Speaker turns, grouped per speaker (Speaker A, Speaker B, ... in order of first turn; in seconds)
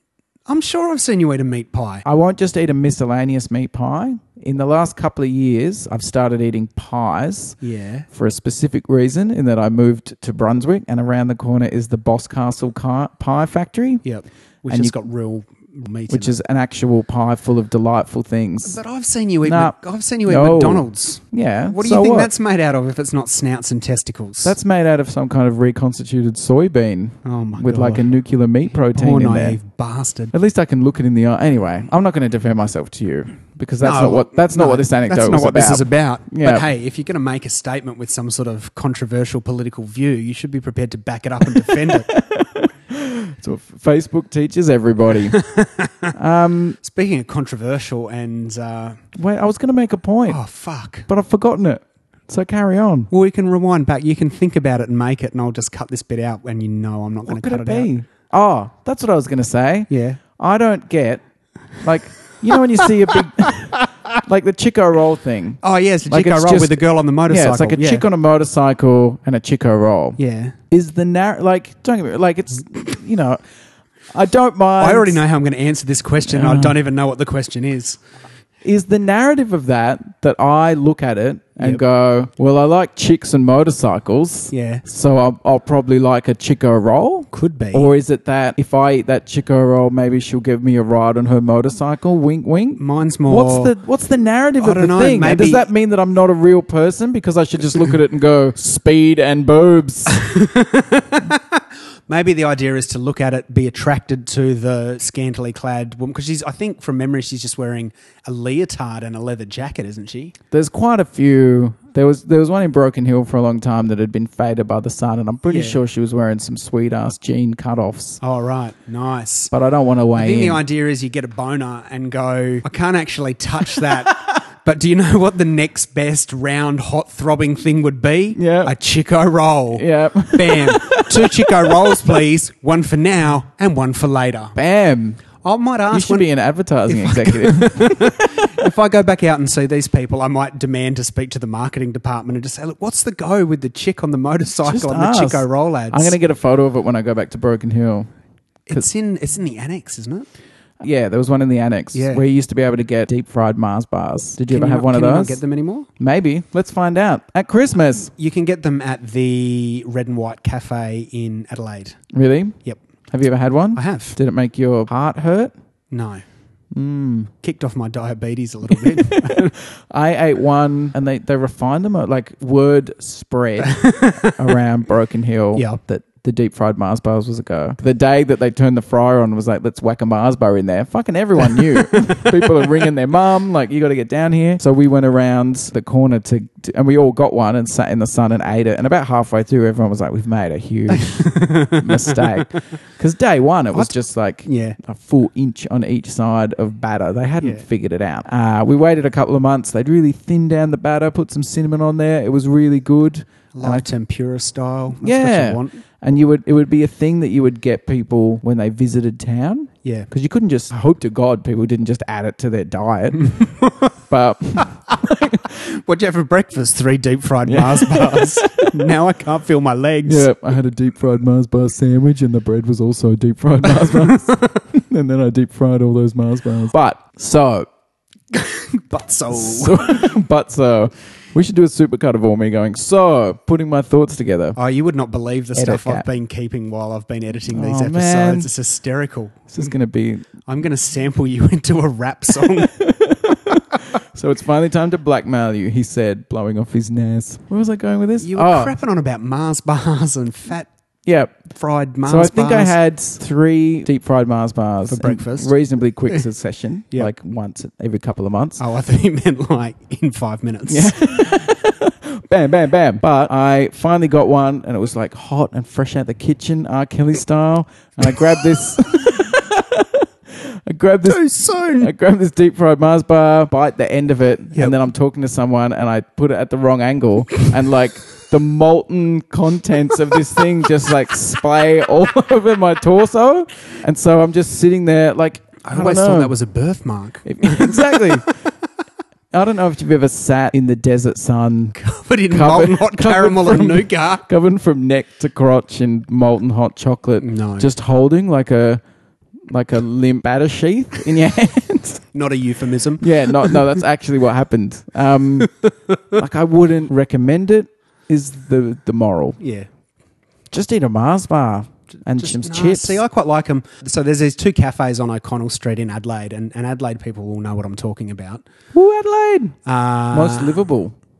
Speaker A: 0.5-2.0, 7.6-8.1, 14.0-16.4, 18.6-24.5, 27.2-28.0, 28.9-30.3, 33.8-42.1, 45.3-46.1, 46.8-49.0, 50.3-51.1, 53.1-57.9, 59.9-60.2, 62.8-64.2, 65.6-68.0, 70.2-70.5, 74.8-78.0, 84.5-84.8, 87.3-87.9, 92.8-93.7, 94.6-95.7, 100.1-110.3, 115.4-115.8, 118.2-119.5, 120.1-134.6, 135.4-136.3, 136.9-146.2, 148.7-150.3, 151.9-152.2, 154.5-155.9, 158.2-162.0, 163.7-164.2, 165.9-166.2, 167.4-169.5, 173.6-174.4, 181.6-182.6, 190.9-192.5, 193.7-194.8, 203.5-205.8, 213.4-213.9, 215.5-220.3, 223.8-224.6, 228.3-230.1, 234.6-239.7, 240.5-242.7, 248.2-250.7, 251.5-252.8, 254.9-255.5, 258.6-261.4, 271.0-271.9, 285.6-288.3, 291.8-294.3, 297.2-297.7, 302.1-303.6, 305.6-306.2, 309.4-309.7, 312.0-318.4, 319.6-320.6
Speaker B: 2.0-7.6, 8.1-14.0, 14.7-14.9, 16.1-18.8, 19.4-19.7, 20.2-22.3, 24.4-29.6, 30.3-36.6, 41.6-45.4, 46.1-46.8, 49.1-50.4, 51.1-53.1, 57.2-61.2, 61.8-70.2, 70.7-73.4, 74.1-75.2, 76.2-76.8, 78.6-100.2, 110.5-118.2, 119.5-120.6, 128.3-128.7, 129.7-131.9, 134.6-135.2, 135.9-138.2, 144.7-148.1, 150.8-155.4, 156.0-158.1, 162.1-162.6, 163.1-165.5, 166.7-167.3, 168.7-203.8, 205.0-215.6, 217.4-218.7, 220.0-227.7, 229.3-234.6, 235.5-236.1, 237.5-238.5, 239.5-240.2, 242.4-248.7, 251.1-251.3, 252.1-258.6, 260.7-271.2, 271.8-286.3, 287.2-288.3, 289.3-291.8, 292.3-298.8, 299.5-302.0, 303.0-305.5, 306.1-309.4, 310.5-313.0, 318.7-319.6, 320.1-320.9